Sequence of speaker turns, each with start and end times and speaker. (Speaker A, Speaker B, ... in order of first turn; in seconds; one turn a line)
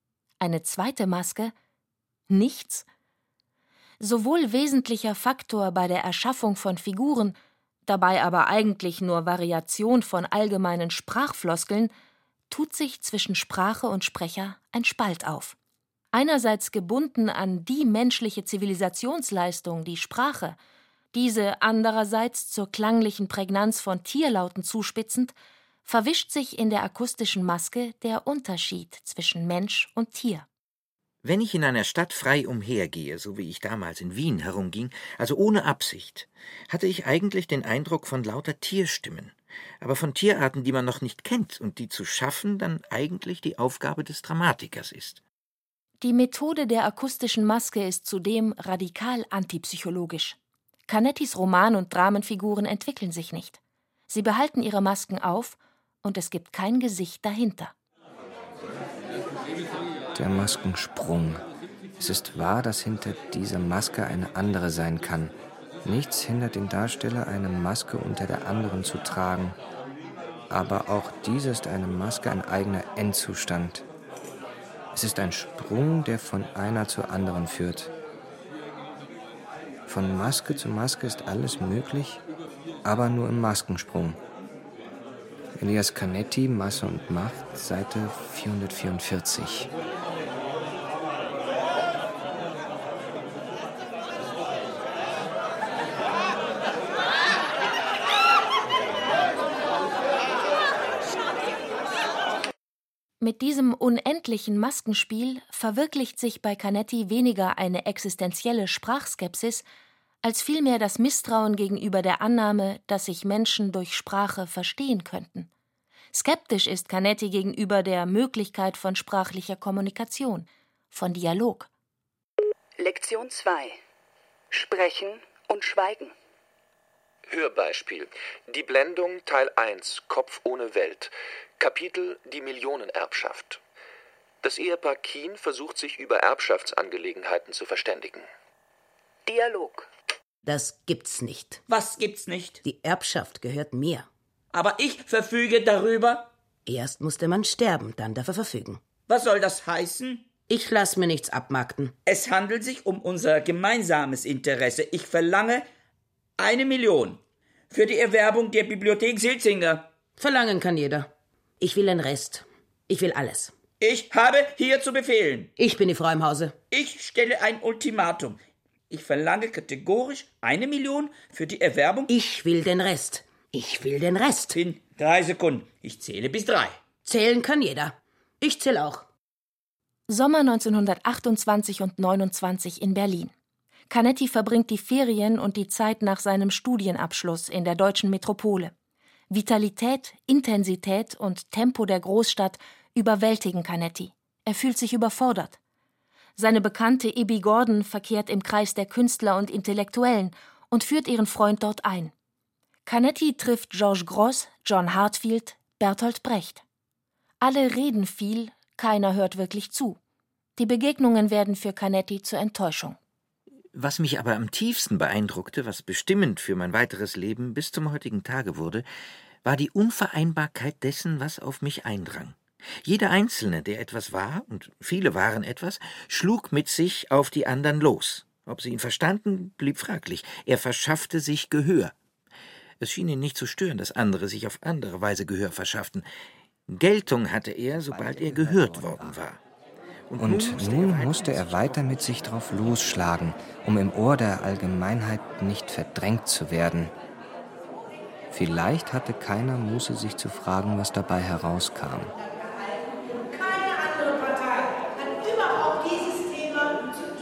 Speaker A: 0.4-1.5
Speaker A: 2.3-2.9
Speaker A: 4.0-11.9
Speaker A: 12.5-15.6
Speaker A: 16.1-20.6
Speaker A: 21.1-25.3
Speaker A: 25.9-30.5
Speaker B: 31.2-45.2
Speaker A: 46.0-57.7
Speaker C: 60.1-61.5
Speaker C: 62.0-69.6
Speaker C: 70.5-73.8
Speaker C: 74.9-77.9
Speaker C: 79.9-82.2
Speaker C: 82.8-84.2
Speaker C: 85.6-89.7
Speaker A: 103.2-109.7
Speaker A: 110.2-115.5
Speaker A: 116.1-121.7
Speaker D: 122.8-123.8
Speaker D: 124.5-126.1
Speaker E: 127.3-133.6
Speaker E: 134.4-138.3
Speaker D: 139.3-139.9
Speaker F: 140.4-141.6
Speaker G: 141.7-142.6
Speaker F: 142.6-144.1
Speaker G: 144.5-146.3
Speaker F: 146.7-148.8
Speaker G: 149.1-150.3
Speaker F: 150.5-151.9
Speaker G: 152.1-155.7
Speaker G: 156.4-159.9
Speaker F: 160.2-163.6
Speaker G: 163.8-165.5
Speaker F: 165.6-166.6
Speaker G: 166.7-172.1
Speaker F: 172.1-174.6
Speaker G: 174.5-176.8
Speaker F: 177.0-179.1
Speaker A: 180.1-183.3
Speaker A: 183.9-188.7
Speaker A: 189.3-195.6
Speaker A: 196.4-202.1
Speaker A: 202.9-206.6
Speaker A: 207.4-210.0
Speaker A: 210.6-213.0
Speaker B: 213.7-218.8
Speaker B: 219.4-231.9
Speaker B: 232.8-236.1
Speaker B: 236.7-239.4
Speaker C: 237.7-239.2
Speaker B: 240.1-242.0
Speaker C: 240.2-246.9
Speaker C: 248.3-252.1